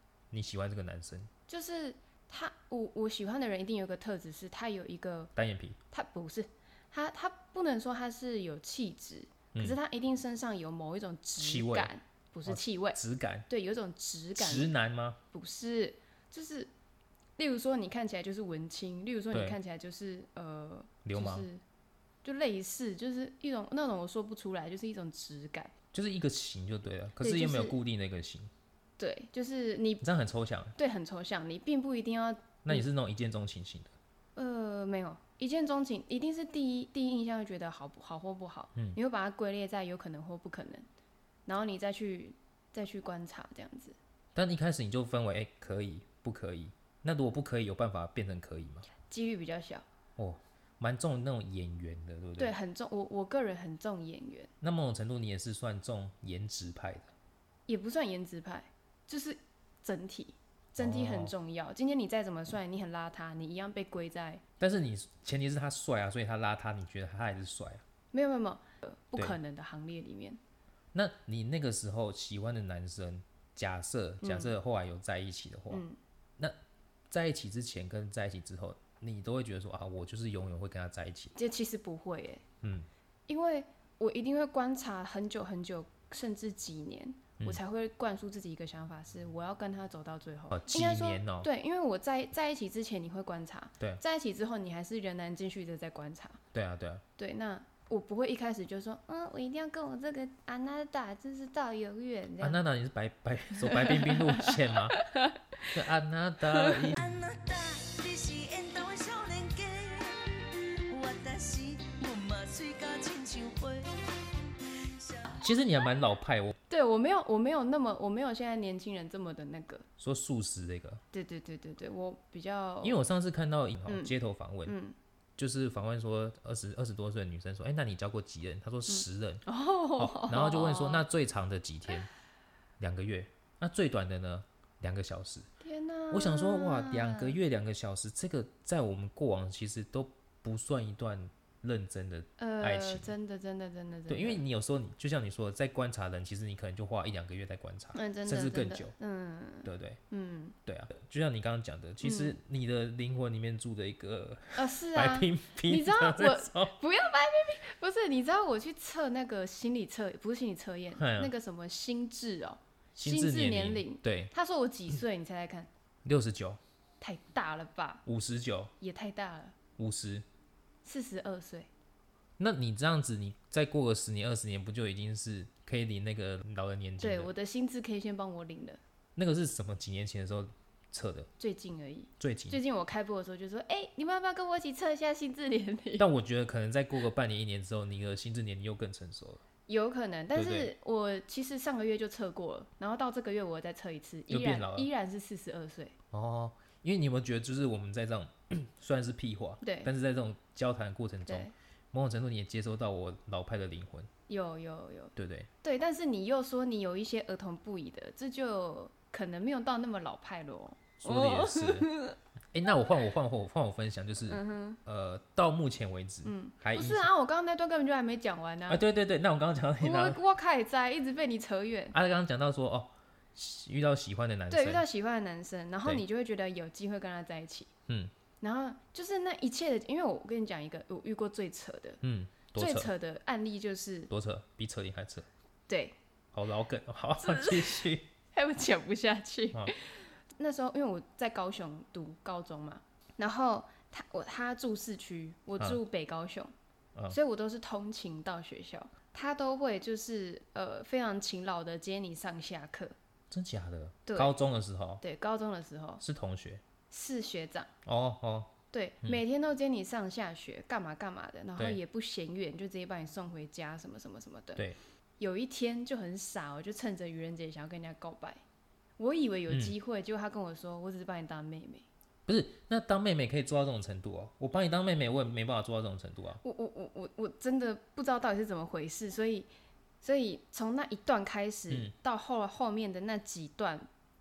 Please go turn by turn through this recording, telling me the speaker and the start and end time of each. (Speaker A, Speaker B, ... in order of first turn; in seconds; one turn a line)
Speaker A: 0.3-1.3
Speaker B: 1.5-5.3
Speaker A: 5.4-5.8
Speaker B: 5.9-14.7
Speaker A: 11.4-11.9
Speaker A: 12.4-13.5
Speaker A: 14.4-15.2
Speaker B: 15.3-16.7
Speaker B: 17.4-21.6
Speaker A: 19.3-19.6
Speaker A: 21.0-21.5
Speaker B: 22.2-25.7
Speaker A: 25.9-28.5
Speaker B: 27.2-27.8
Speaker B: 29.0-30.0
Speaker A: 30.0-30.8
Speaker B: 30.8-32.9
Speaker A: 32.6-33.9
Speaker B: 34.4-40.9
Speaker B: 41.5-44.0
Speaker A: 44.4-48.9
Speaker B: 49.0-49.9
Speaker A: 50.2-52.5
Speaker B: 52.4-54.5
Speaker A: 54.6-57.1
Speaker B: 57.7-64.4
Speaker A: 60.8-61.3
Speaker A: 64.6-67.8
Speaker B: 68.1-70.4
Speaker A: 70.9-75.8
Speaker B: 74.2-74.5
Speaker B: 75.7-76.0
Speaker A: 77.1-81.3
Speaker B: 81.3-82.4
Speaker A: 82.6-82.9
Speaker B: 83.3-96.4
Speaker A: 90.5-91.5
Speaker A: 96.5-97.0
Speaker B: 97.2-102.6
Speaker A: 102.4-105.0
Speaker B: 103.7-105.4
Speaker A: 105.7-107.0
Speaker B: 106.6-106.9
Speaker C: 107.0-115.8
Speaker A: 115.4-116.6
Speaker B: 116.7-119.9
Speaker A: 120.0-121.0
Speaker B: 121.1-123.0
Speaker A: 122.8-124.8
Speaker B: 123.9-124.1
Speaker B: 124.7-125.0
Speaker A: 125.4-129.4
Speaker B: 128.9-131.1
Speaker A: 130.0-132.1
Speaker A: 132.8-135.5
Speaker B: 135.6-137.4
Speaker A: 136.1-143.1
Speaker B: 142.4-144.4
Speaker A: 144.1-148.9
Speaker B: 147.9-150.6
Speaker A: 149.6-150.0
Speaker A: 150.7-156.7
Speaker B: 152.0-152.4
Speaker B: 154.6-165.7
Speaker A: 160.9-161.3
Speaker A: 163.0-164.3
Speaker A: 166.1-166.6
Speaker B: 167.0-168.1
Speaker A: 168.1-168.7
Speaker B: 168.8-169.6
Speaker A: 169.8-170.2
Speaker B: 170.8-171.7
Speaker A: 172.4-177.3
Speaker B: 177.0-178.8
Speaker A: 179.2-181.3
Speaker B: 181.4-186.1
Speaker A: 182.2-182.6
Speaker A: 186.0-189.4
Speaker B: 189.7-195.9
Speaker A: 190.3-190.7
Speaker A: 194.3-194.9
Speaker A: 196.1-204.1
Speaker B: 199.6-199.9
Speaker B: 201.3-201.5
Speaker B: 204.3-212.2
Speaker A: 205.2-205.5
Speaker A: 211.0-211.9
Speaker A: 212.5-217.1
Speaker B: 214.3-214.8
Speaker B: 216.2-218.8
Speaker A: 218.7-220.2
Speaker B: 219.8-221.9
Speaker A: 221.9-224.8
Speaker B: 224.5-227.7
Speaker B: 228.4-232.0
Speaker A: 232.0-232.9
Speaker B: 232.6-234.1
Speaker A: 234.1-235.3
Speaker B: 235.7-236.0
Speaker A: 236.3-238.1
Speaker B: 237.2-246.5
Speaker B: 247.1-252.9
Speaker A: 253.3-255.0
Speaker B: 254.1-254.3
Speaker B: 255.0-256.0
Speaker A: 256.0-256.6
Speaker B: 256.9-257.7
Speaker A: 257.9-259.2
Speaker B: 258.7-264.7
Speaker B: 265.2-268.4
Speaker B: 269.0-271.9
Speaker A: 269.5-269.7
Speaker A: 272.3-276.4
Speaker B: 276.4-279.5
Speaker B: 280.0-283.9